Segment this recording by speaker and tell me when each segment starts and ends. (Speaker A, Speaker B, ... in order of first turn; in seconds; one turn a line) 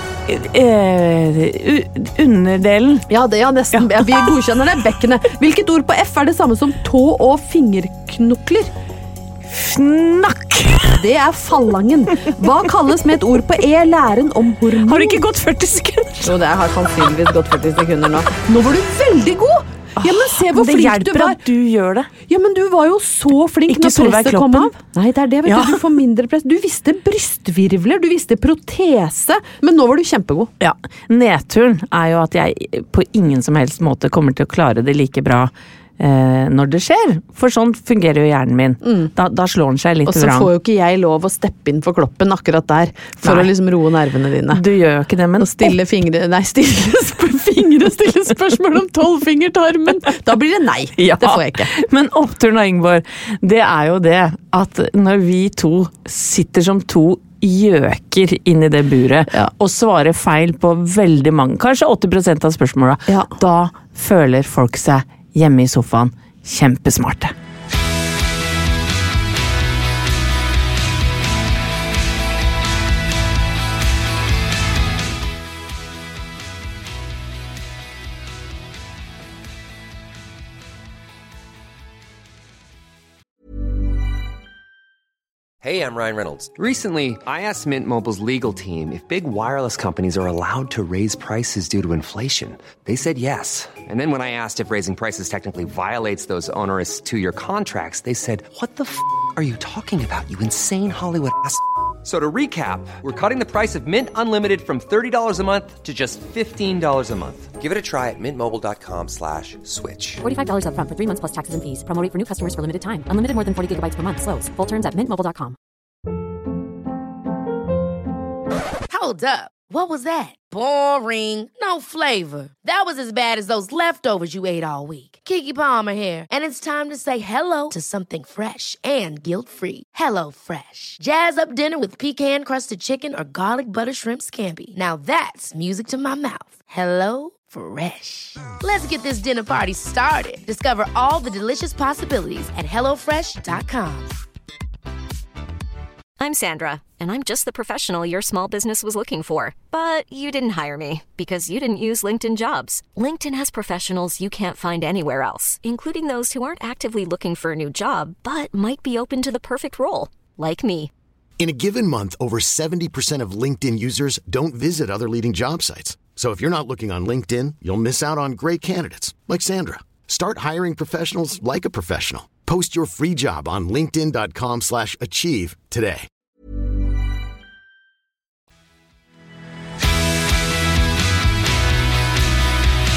Speaker A: 0.2-3.1
Speaker B: 3.1-8.7
Speaker A: 3.7-4.3
Speaker A: 9.5-11.0
Speaker B: 10.9-15.2
Speaker A: 14.8-16.4
Speaker B: 16.2-21.4
Speaker A: 20.0-22.1
Speaker B: 22.3-30.5
Speaker A: 23.7-24.7
Speaker A: 25.4-25.8
Speaker A: 30.6-40.5
Speaker B: 40.1-44.6
Speaker A: 43.2-43.5
Speaker A: 44.5-45.7
Speaker B: 45.4-51.7
Speaker A: 51.0-67.3
Speaker C: 85.6-110.2
Speaker D: 110.2-115.5
Speaker E: 118.9-144.1
Speaker F: 146.2-160.9
Speaker G: 161.4-176.1